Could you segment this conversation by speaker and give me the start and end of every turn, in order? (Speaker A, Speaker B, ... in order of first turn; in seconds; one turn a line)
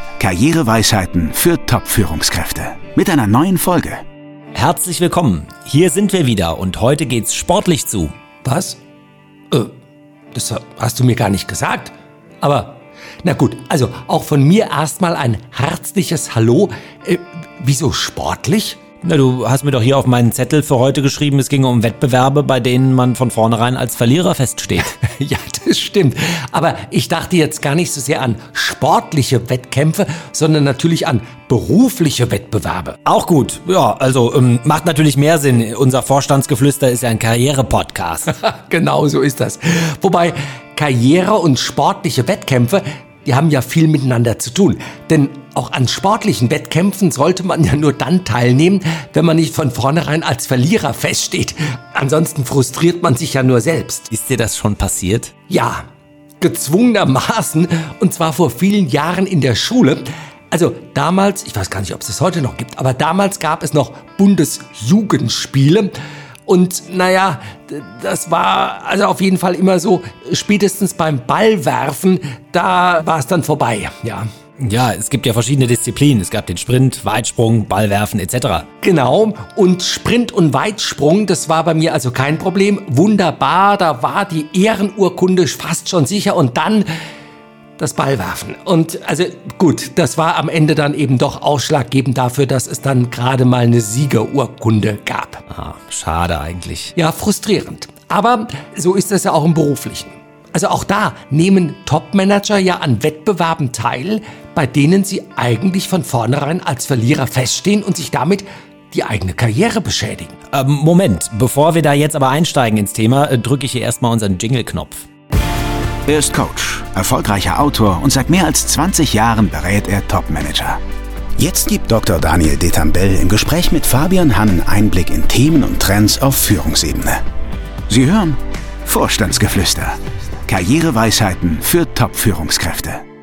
Speaker A: 0.2-4.0
Speaker B: 4.5-8.1
Speaker C: 8.4-8.8
Speaker C: 10.3-18.8
Speaker B: 19.0-24.9
Speaker C: 24.9-33.0
Speaker B: 33.1-38.3
Speaker C: 38.3-54.1
Speaker B: 54.1-55.3
Speaker C: 55.5-55.8
Speaker C: 56.4-65.9
Speaker C: 66.5-74.3
Speaker B: 74.6-78.7
Speaker C: 78.8-86.9
Speaker C: 87.8-95.4
Speaker B: 95.5-96.9
Speaker C: 97.0-110.3
Speaker B: 110.5-115.0
Speaker A: 116.1-120.8
Speaker A: 121.4-127.2
Speaker A: 127.9-133.0